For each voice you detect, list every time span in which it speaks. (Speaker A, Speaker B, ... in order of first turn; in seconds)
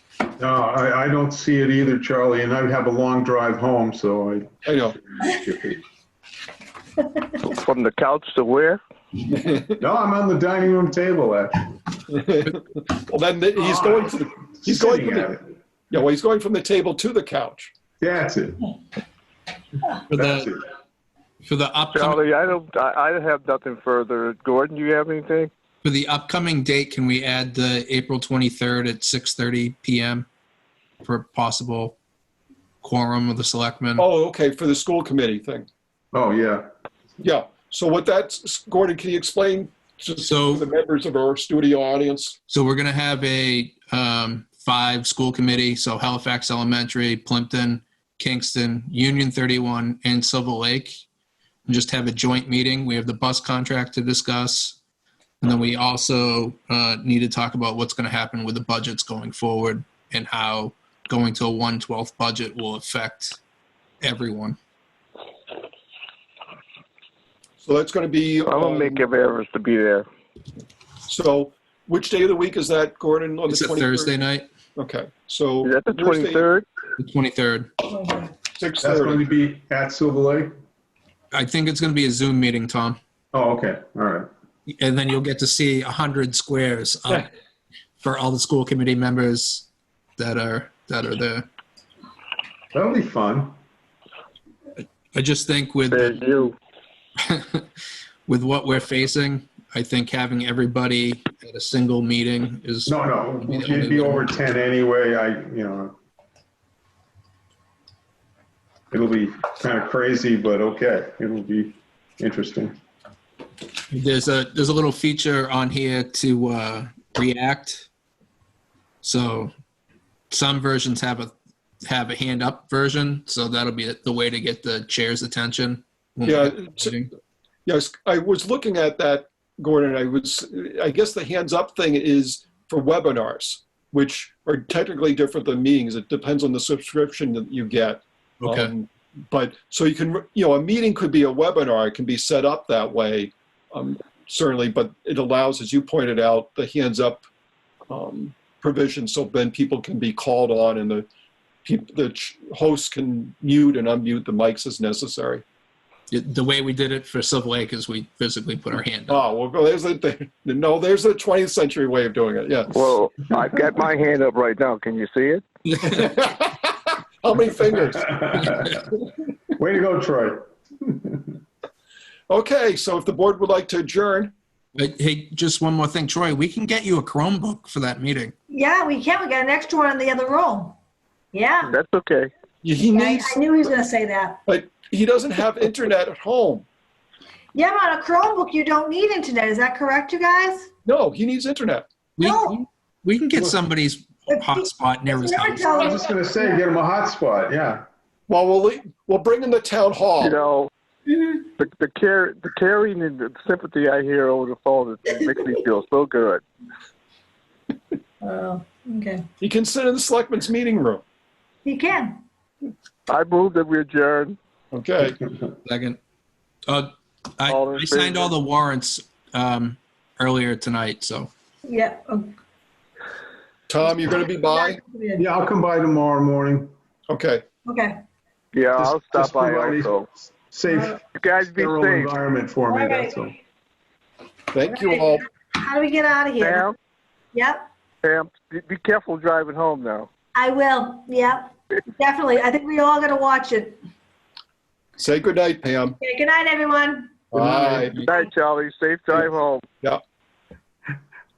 Speaker A: 0.4-4.7, 5.2-5.8, 9.8-11.7, 13.6-15.4, 18.0-18.7, 20.1-20.6, 36.1-36.7, 78.8-80.5, 83.3-84.3, 92.7-93.5, 102.9-105.9, 108.9-112.7, 168.1-168.8, 169.5-171.2, 195.7-197.8, 225.2-226.7, 228.8-233.3, 247.4-247.8
Speaker B: 4.6-5.0, 9.3-9.7, 12.1-15.3, 15.9-17.7, 34.0-35.7, 37.2-42.4, 67.6-69.0, 71.0-74.1, 74.7-76.5, 78.5-79.3, 126.2-127.0, 127.6-147.2, 147.9-151.1, 151.6-155.4, 159.1-163.0, 165.8-168.8, 172.3-174.3, 182.6-183.5, 184.4-186.7, 190.8-191.9, 198.3-200.4, 209.4-211.0, 214.7-215.2, 223.7-224.8, 227.1-227.4, 234.5-235.3, 245.0-246.0, 247.3-248.0
Speaker C: 7.4-8.8, 21.9-25.5, 68.4-70.0, 75.6-76.6, 95.9-96.5, 162.7-165.4, 181.7-182.3, 200.2-200.7, 201.3-206.4, 213.1-214.4, 217.4-218.3, 228.5-230.1, 231.0-232.1, 236.4-236.7, 238.0-240.1, 248.0-249.6
Speaker D: 20.1-20.6, 21.4-22.2, 25.8-30.3, 31.0-32.0, 32.8-34.0, 40.2-40.6, 42.5-51.0, 51.7-54.8, 55.4-63.4, 64.0-64.6, 73.5-74.5, 77.0-77.7, 81.3-83.0, 84.7-87.3, 88.0-91.5, 95.1-96.2, 97.2-97.7, 98.2-104.4, 113.9-117.9, 119.0-119.5, 120.3-127.1, 138.4-138.7, 156.1-159.2, 165.7-166.0, 174.7-178.3, 192.2-195.9, 215.6-216.0, 216.7-221.3
Speaker E: 77.9-78.3, 178.5-180.8, 181.3-181.7, 182.9-184.4, 187.5-190.7, 192.2-192.6, 194.3-196.6, 208.2-209.2, 211.6-212.2, 221.7-222.3, 224.0-225.3, 227.7-228.0, 232.7-233.1, 234.8-236.7, 237.3-237.7, 240.3-243.8, 246.0-247.2